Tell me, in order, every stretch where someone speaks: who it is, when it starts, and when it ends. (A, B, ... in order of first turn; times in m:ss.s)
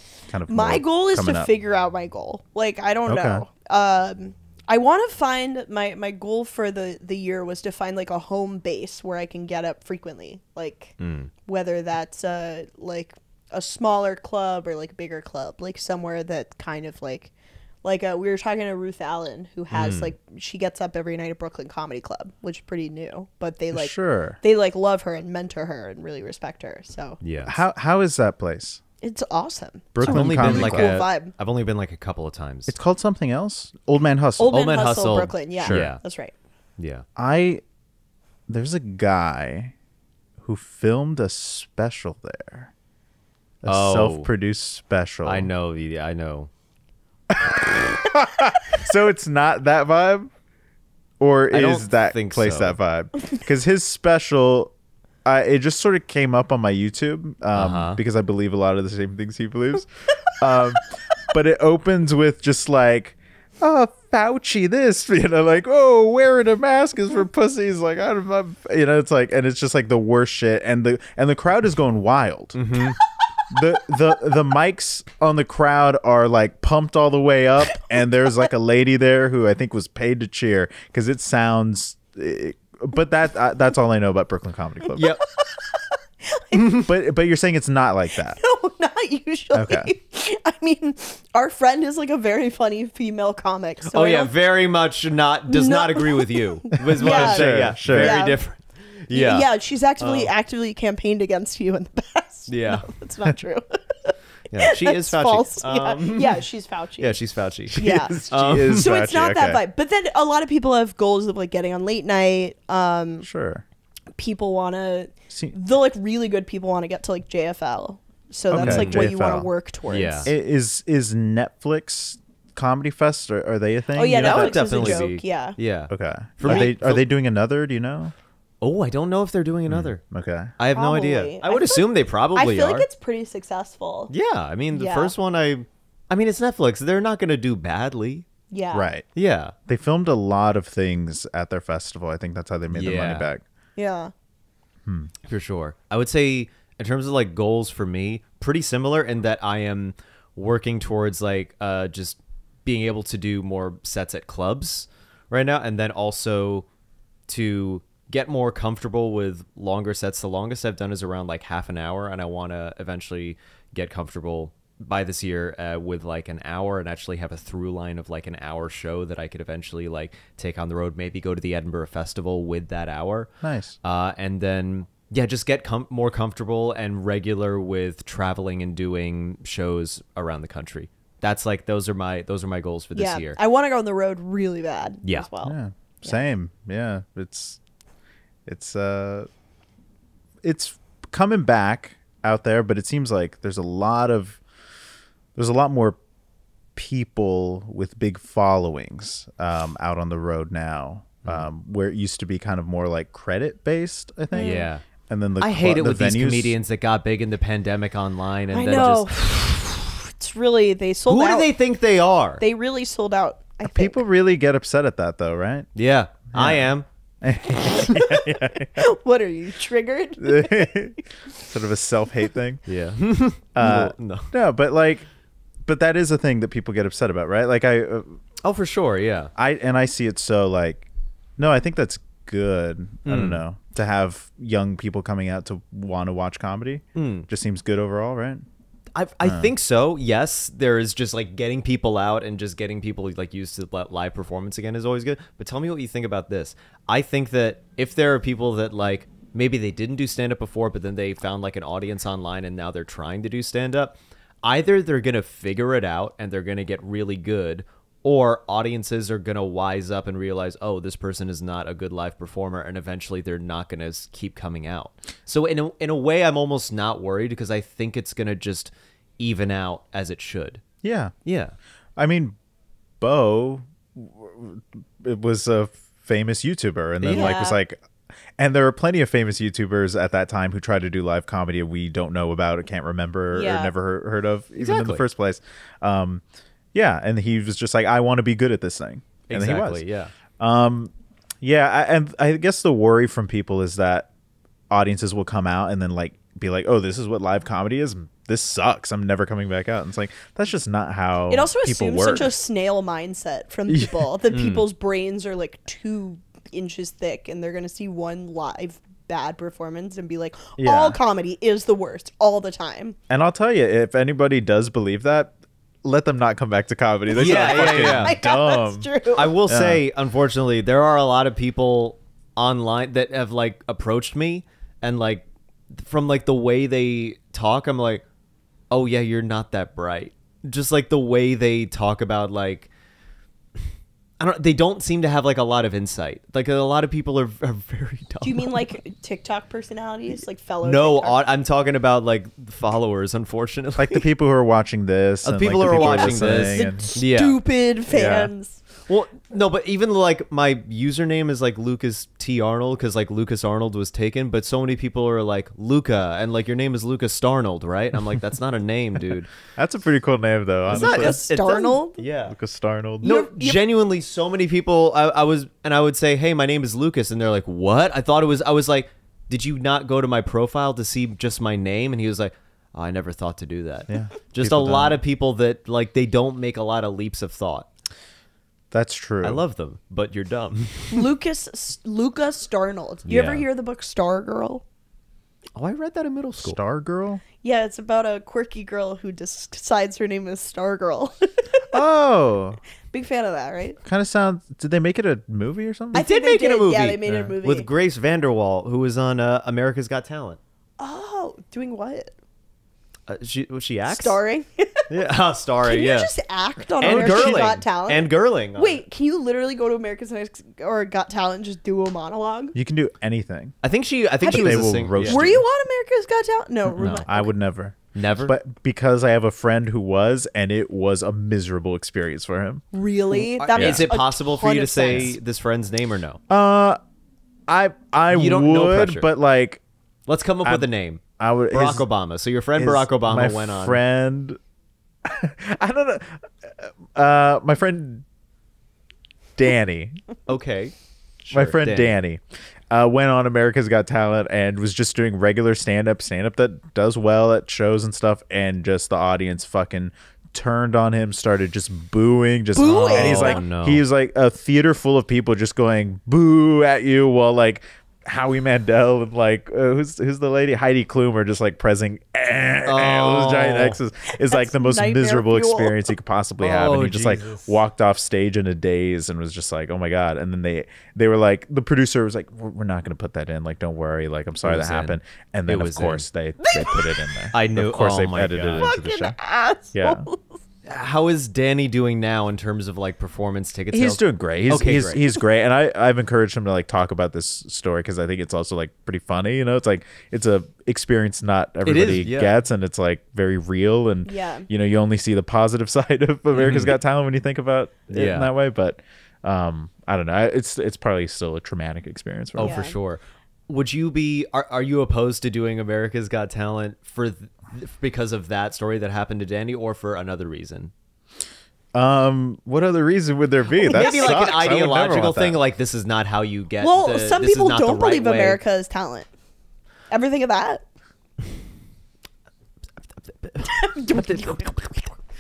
0:00.3-0:01.5 A
0:00.5-0:17.3 B
0:03.1-0:03.4 A
0:11.0-0:11.3 C
0:17.8-0:27.2 B
0:19.7-0:20.1 C
0:23.7-0:24.4 A
0:27.2-0:27.6 C
0:27.4-0:28.8 A
0:29.0-0:31.3 B
0:29.9-0:31.0 A
0:30.0-0:32.8 C
0:32.7-0:34.6 A
0:34.4-0:36.3 B
0:34.5-0:36.0 C
0:35.6-0:35.9 A
0:36.8-0:37.0 C
0:37.2-0:37.6 A
0:38.5-0:39.7 A
0:40.4-0:42.7 A
0:43.6-0:45.5 A
0:43.6-0:44.3 C
0:45.2-0:46.5 C
0:47.3-0:50.3 A
0:51.2-0:54.7 A
0:51.5-0:52.8 C
0:55.2-1:12.6 A
0:57.5-0:58.0 C
1:12.5-1:13.0 C
1:13.5-1:25.1 A
1:25.0-1:25.2 C
1:26.2-1:26.6 B
1:26.8-1:28.4 A
1:28.3-1:34.3 B
1:29.5-1:29.9 A
1:33.9-1:40.3 C
1:35.5-1:38.4 B
1:36.8-1:38.3 A
1:39.1-1:47.2 B
1:42.5-1:42.9 C
1:44.5-1:46.4 C
1:47.0-1:48.9 C
1:47.7-1:49.6 A
1:47.8-1:53.3 B
1:53.2-1:53.6 A
1:54.2-2:00.3 B
1:58.5-1:59.5 A
1:58.5-1:59.0 C
1:59.9-2:00.3 C
2:00.2-2:05.1 A
2:03.9-2:05.6 B
2:04.2-2:07.0 C
2:05.9-2:08.1 A
2:06.4-2:06.7 B
2:08.6-2:10.0 C
2:09.7-2:10.5 A
2:10.6-2:12.9 C
2:10.7-2:14.1 B
2:14.1-2:18.3 C
2:14.7-2:15.1 B
2:18.5-2:18.9 B
2:18.7-2:19.1 A
2:19.1-2:19.5 C
2:19.7-2:23.4 A
2:22.7-2:23.3 C
2:23.8-2:24.1 B
2:24.8-2:25.1 A
2:25.2-2:36.6 C
2:37.3-2:53.3 C
2:53.4-2:53.8 A
2:53.8-3:03.4 C
3:02.9-3:06.2 B
3:05.4-3:07.6 A
3:08.4-3:09.3 A
3:10.4-3:14.4 A
3:15.3-3:16.0 A
3:16.7-3:26.6 A
3:24.3-3:24.7 B
3:24.3-3:24.8 C
3:25.4-3:29.1 C
3:28.5-3:31.5 B
3:31.1-3:32.4 C
3:32.4-3:34.0 B
3:33.6-3:35.7 A
3:35.8-3:36.9 C
3:36.3-3:38.8 A
3:37.7-3:40.9 B
3:40.2-3:42.6 A
3:42.7-3:44.3 C
3:43.5-3:45.1 A
3:45.6-3:48.2 A
3:48.4-3:49.3 C
3:49.4-3:58.4 A
3:53.0-3:53.4 C
3:56.9-3:57.3 C
3:58.9-4:30.6 C
3:59.2-3:59.5 A
4:30.8-4:31.1 A
4:31.2-4:31.6 C
4:32.0-4:32.4 A
4:33.0-4:37.8 A
4:37.0-4:37.4 C
4:37.1-4:37.6 B
4:38.4-4:46.2 A
4:43.3-4:43.7 B
4:44.6-4:45.0 C
4:46.7-4:49.8 A
4:49.3-4:50.1 C
4:50.4-4:54.1 A
4:54.7-5:02.3 A
5:01.3-5:13.0 B
5:04.3-5:04.6 C
5:10.6-5:11.0 A
5:13.1-5:18.9 A
5:17.1-5:19.4 B
5:17.1-5:18.2 C
5:19.1-5:28.0 C
5:19.4-5:19.8 A
5:28.7-5:32.7 C
5:34.2-5:38.6 C
5:38.2-5:41.2 B
5:40.6-5:44.0 C
5:43.8-5:47.0 A
5:45.2-5:47.4 C
5:45.6-5:48.6 B
5:47.9-5:48.3 A
5:48.9-5:59.3 C
5:59.5-6:01.2 A
6:00.7-6:02.3 C
6:00.7-6:02.0 B
6:02.2-6:03.1 A
6:03.0-6:17.7 C
6:03.0-6:03.6 B
6:13.9-6:15.0 A
6:18.7-6:19.4 A
6:19.2-6:21.1 C
6:20.9-6:24.6 B
6:23.1-6:23.5 C
6:25.6-6:26.6 C
6:26.4-6:27.2 A
6:27.4-6:31.8 B
6:31.7-6:32.6 A
6:32.9-6:33.8 B
6:33.8-6:36.0 A
6:35.9-6:37.7 B
6:35.9-6:40.4 C
6:40.8-6:42.1 B
6:43.1-6:44.2 C
6:43.9-6:44.9 B
6:44.9-6:46.1 C
6:45.6-6:52.6 B
6:46.8-6:48.8 C
6:46.8-6:47.5 A
6:52.5-6:53.5 A
6:53.6-6:55.3 C
6:54.2-6:57.3 B
6:54.3-6:55.4 A
6:56.8-7:02.6 A
6:57.9-6:58.3 C
7:02.7-7:05.2 B
7:03.4-7:06.2 C
7:03.5-7:03.9 A
7:06.3-7:06.8 A
7:07.5-7:09.6 A
7:08.1-7:09.1 C
7:10.1-7:13.8 C
7:11.2-7:11.8 A
7:12.6-7:14.4 A
7:15.0-7:18.0 A
7:19.4-7:20.0 A
7:20.3-7:21.9 C
7:21.3-7:59.2 A
7:32.5-7:33.4 B
7:32.6-7:33.8 C
7:42.6-7:43.8 C
7:44.2-7:45.9 B
7:46.4-7:47.5 C
7:54.4-7:56.0 C
7:56.4-7:57.2 B
7:57.3-7:58.8 C
7:58.6-8:00.3 B
7:59.7-8:00.1 A
8:00.6-8:05.0 C
8:03.7-8:22.6 A
8:11.6-8:12.3 C
8:14.0-8:14.5 B
8:16.3-8:16.8 C
8:17.9-8:18.3 C
8:22.4-8:30.7 C
8:22.4-8:22.8 B
8:31.7-8:35.4 A
8:33.6-8:38.4 C
8:33.6-8:34.3 B
8:36.6-8:39.1 B
8:39.9-8:40.6 B
8:43.0-8:43.5 C
8:43.4-8:44.7 B